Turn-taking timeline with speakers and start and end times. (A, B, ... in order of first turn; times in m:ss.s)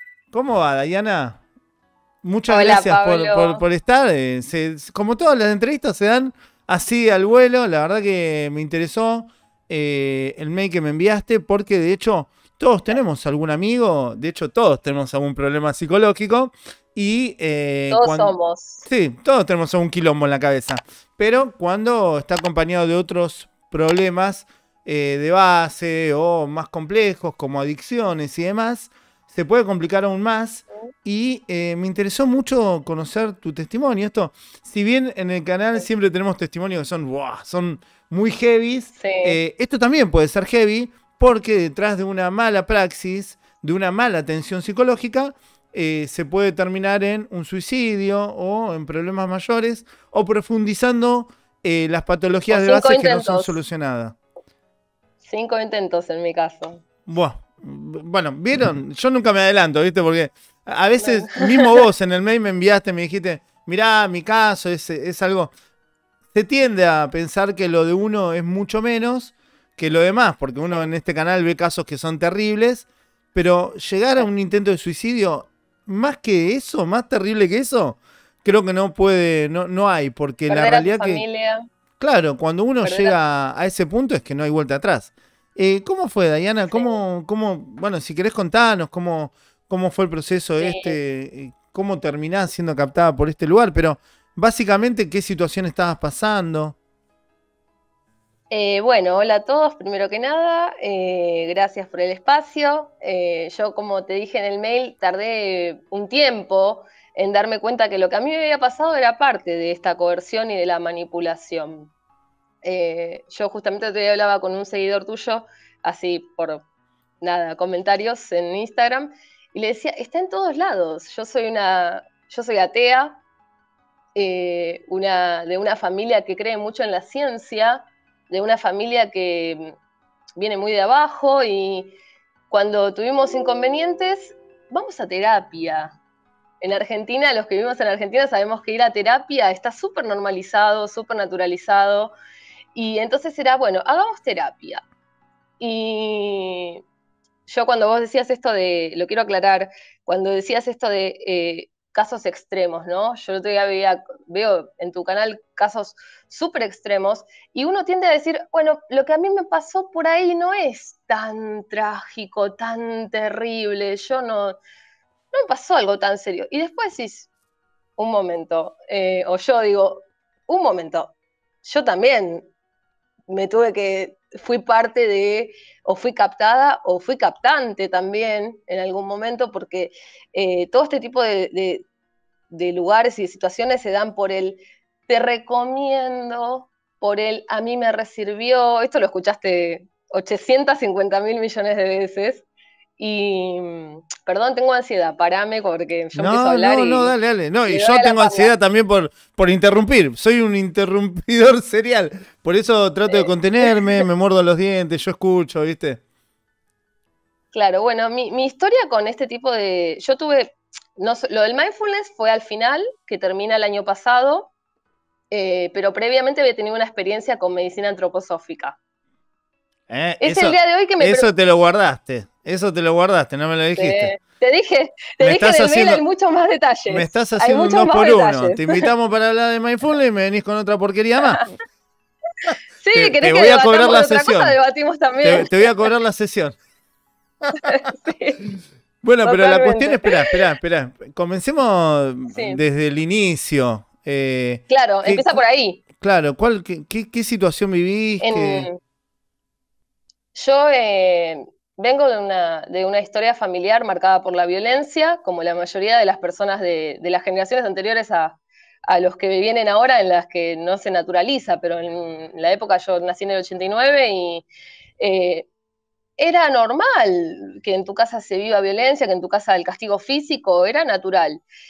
0:00.3-0:01.4 A
0:02.2-0:54.2 A
0:02.5-0:03.6 B
0:17.9-0:18.8 B
0:39.0-0:39.4 B
0:52.5-0:53.6 B
0:55.2-0:56.8 B
0:57.0-1:05.5 A
1:01.0-1:01.6 B
1:06.3-1:21.2 A
1:20.5-1:21.6 B
1:22.0-1:36.8 A
1:22.8-1:23.1 B
1:26.7-1:27.0 B
1:30.6-1:31.0 B
1:38.5-1:51.9 B
1:52.6-1:56.6 B
1:57.2-2:03.2 B
2:04.1-2:09.8 B
2:10.4-2:12.0 B
2:12.5-2:16.0 B
2:16.6-2:22.1 B
2:22.7-2:24.8 B
2:25.6-2:26.8 B
2:27.5-2:44.6 B
2:45.3-2:47.3 B
2:48.0-2:52.5 B
2:53.3-3:01.9 B
3:02.5-3:12.4 B
3:13.0-3:18.5 B
3:16.1-3:26.0 A
3:23.1-3:24.0 B
3:27.5-3:34.5 B
3:35.3-3:38.8 B
3:39.9-3:44.1 A
3:40.2-3:41.3 B
3:43.8-3:48.8 B
3:45.2-3:46.0 A
3:46.9-3:51.5 A
3:52.8-3:55.7 B
3:52.9-3:54.6 A
3:55.2-3:56.6 A
3:57.6-3:58.4 B
3:59.0-4:05.4 A
3:59.2-4:00.3 B
4:02.3-4:02.6 B
4:04.7-4:05.8 B
4:06.0-4:08.7 A
4:08.2-4:08.8 B
4:10.3-4:24.4 B
4:25.0-4:25.5 B
4:26.2-4:31.4 B